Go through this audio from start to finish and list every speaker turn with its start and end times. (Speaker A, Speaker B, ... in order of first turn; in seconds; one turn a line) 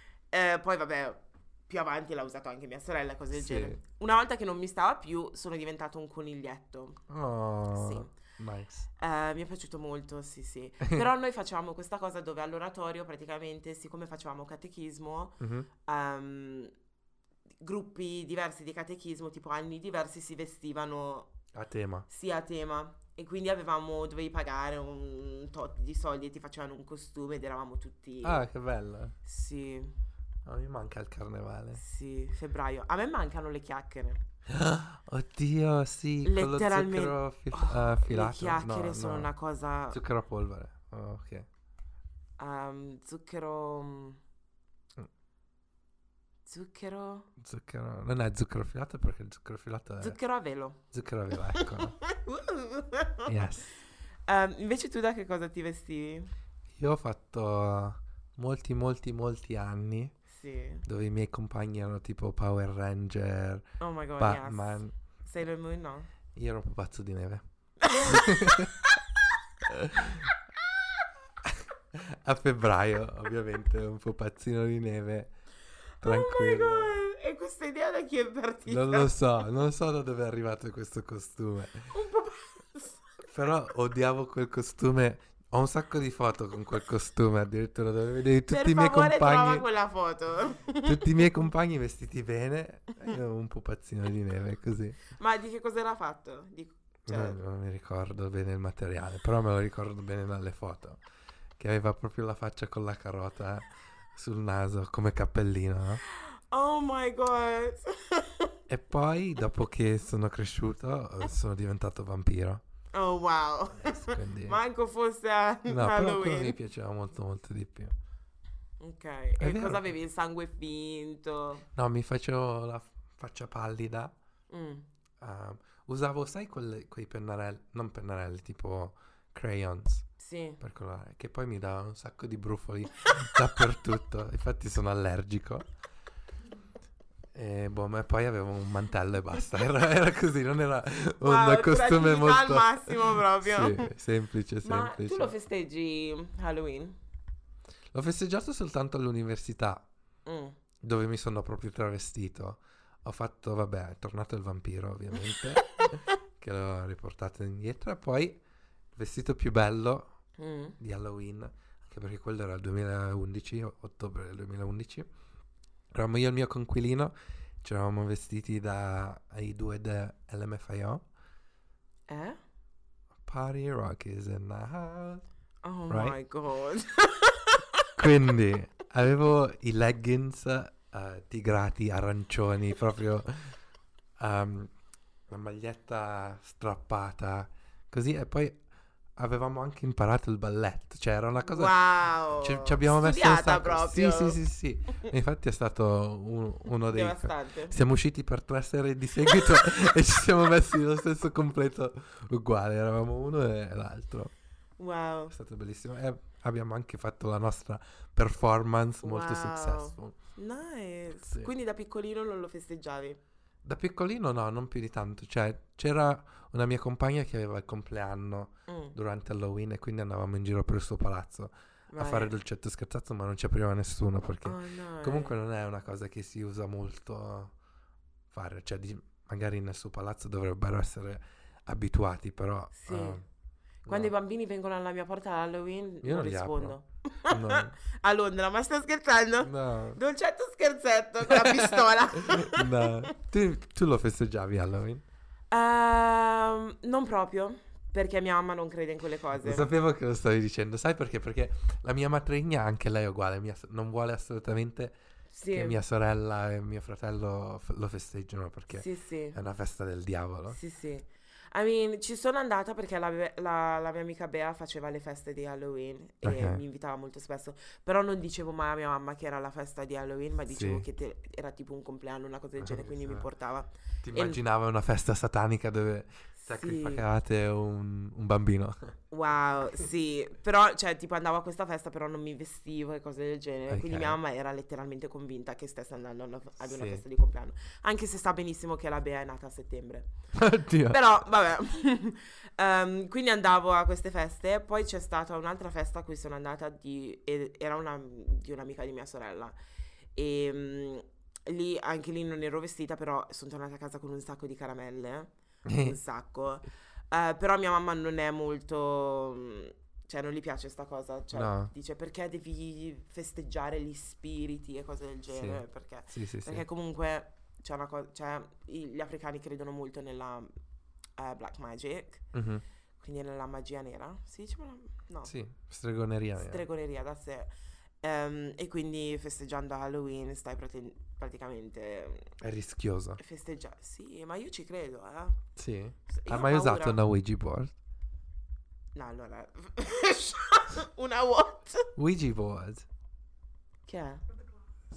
Speaker A: 0.3-7.0
Speaker B: 3.3-3.8
Speaker B: 7.1-8.9
Speaker A: 7.7-8.2
Speaker A: 9.0-16.7
Speaker B: 15.4-15.7
Speaker A: 17.6-21.3
Speaker B: 21.5-22.1
Speaker A: 22.1-28.4
Speaker B: 28.2-29.1
Speaker A: 29.2-29.9
Speaker B: 30.4-31.8
Speaker A: 31.8-34.2
Speaker B: 34.5-39.3
Speaker A: 36.2-40.0
Speaker B: 39.9-41.5
Speaker A: 42.4-44.2
Speaker A: 46.5-47.3
Speaker B: 47.4-50.2
Speaker A: 50.0-50.8
Speaker B: 50.9-52.0
Speaker A: 51.5-53.4
Speaker B: 53.2-53.7
Speaker A: 54.3-56.3
Speaker B: 56.8-60.1
Speaker A: 60.3-60.8
Speaker B: 60.8-63.6
Speaker A: 63.8-66.1
Speaker B: 64.2-64.9
Speaker B: 66.3-67.4
Speaker A: 67.8-69.0
Speaker B: 68.0-68.8
Speaker B: 69.7-70.2
Speaker B: 71.4-75.3
Speaker B: 76.0-77.0
Speaker A: 76.0-79.2
Speaker B: 78.7-81.9
Speaker A: 81.9-83.0
Speaker B: 83.2-89.6
Speaker A: 88.5-91.3
Speaker B: 90.8-95.0
Speaker A: 95.2-97.4
Speaker B: 97.1-101.0
Speaker B: 101.6-106.0
Speaker A: 106.0-108.6
Speaker B: 108.7-112.6
Speaker A: 112.9-116.6
Speaker B: 113.8-114.6
Speaker B: 115.7-117.9
Speaker A: 118.8-121.6
Speaker B: 119.4-119.8
Speaker B: 121.7-124.1
Speaker A: 124.5-124.8
Speaker B: 125.2-130.1
Speaker A: 130.2-130.6
Speaker B: 130.6-135.7
Speaker B: 137.3-145.3
Speaker A: 141.2-143.9
Speaker A: 144.6-146.9
Speaker B: 147.9-149.8
Speaker A: 150.2-150.6
Speaker B: 150.8-158.4
Speaker B: 158.9-160.1
Speaker A: 160.4-160.8
Speaker B: 160.8-165.1
Speaker B: 165.9-171.0
Speaker A: 172.1-172.4
Speaker B: 173.2-175.2
Speaker A: 175.6-178.2
Speaker B: 175.9-176.2
Speaker B: 178.0-183.6
Speaker B: 184.2-184.7
Speaker B: 185.3-188.6
Speaker B: 189.2-204.3
Speaker A: 191.4-194.4
Speaker A: 196.9-197.8
Speaker A: 204.8-205.3
Speaker B: 205.3-210.2
Speaker A: 209.0-213.2
Speaker B: 213.6-227.5
Speaker A: 218.7-218.9
Speaker A: 221.9-222.3
Speaker A: 224.4-225.3
Speaker B: 228.3-233.2
Speaker A: 232.7-233.2
Speaker B: 233.8-234.1
Speaker A: 233.9-243.1
Speaker B: 236.0-236.8
Speaker B: 237.3-237.7
Speaker B: 239.4-240.0
Speaker B: 241.2-245.0
Speaker A: 245.5-249.7
Speaker B: 249.4-254.9
Speaker A: 255.3-255.8
Speaker B: 255.5-260.6
Speaker A: 258.7-259.4
Speaker A: 260.5-274.4
Speaker B: 266.2-266.6
Speaker B: 270.5-270.8
Speaker B: 272.6-273.2
Speaker B: 274.0-278.9
Speaker A: 276.4-277.0
Speaker A: 279.1-290.1
Speaker B: 283.7-284.2
Speaker B: 286.6-287.0
Speaker B: 290.3-291.0
Speaker A: 290.9-299.6
Speaker A: 300.1-320.5
Speaker B: 305.6-306.0
Speaker B: 311.3-311.7
Speaker B: 315.3-316.6
Speaker A: 321.2-322.2
Speaker B: 322.3-322.6
Speaker A: 323.0-325.3
Speaker B: 325.2-326.6
Speaker A: 326.4-327.5
Speaker A: 328.0-332.3
Speaker B: 332.4-333.2
Speaker A: 333.2-335.4
Speaker B: 335.6-337.7
Speaker A: 336.1-337.0
Speaker A: 338.9-341.9
Speaker B: 341.9-342.9
Speaker A: 343.9-344.2